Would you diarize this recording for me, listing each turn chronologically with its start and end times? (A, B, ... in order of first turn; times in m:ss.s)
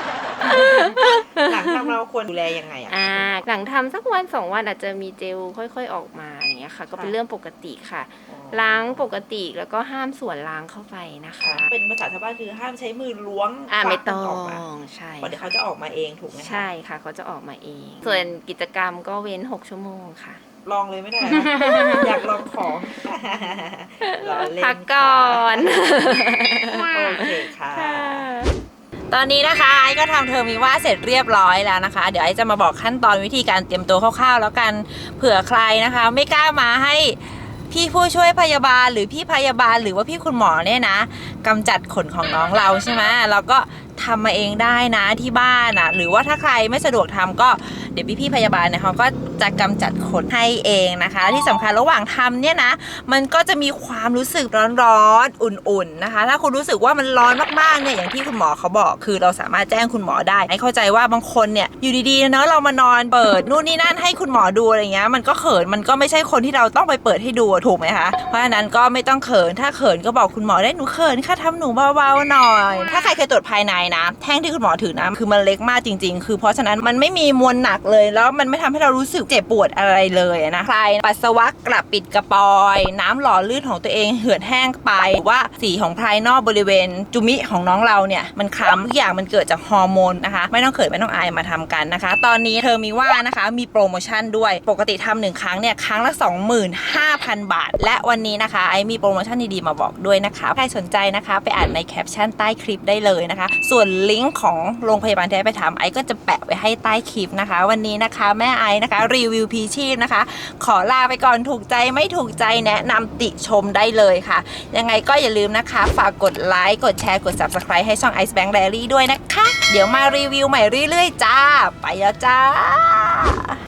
0:00.2-0:03.4 A
0:00.4-0:01.9 B
0:02.9-0:11.7 B
0:08.3-0:09.1 A
0:11.4-0:14.6 A
0:13.7-0:15.5 B
0:15.2-0:16.7 A
0:16.3-0:20.4 B
0:18.0-0:18.3 A
0:20.6-0:28.3 A
0:21.3-0:22.0 B
0:24.0-0:28.5 B
0:29.1-2:03.4 C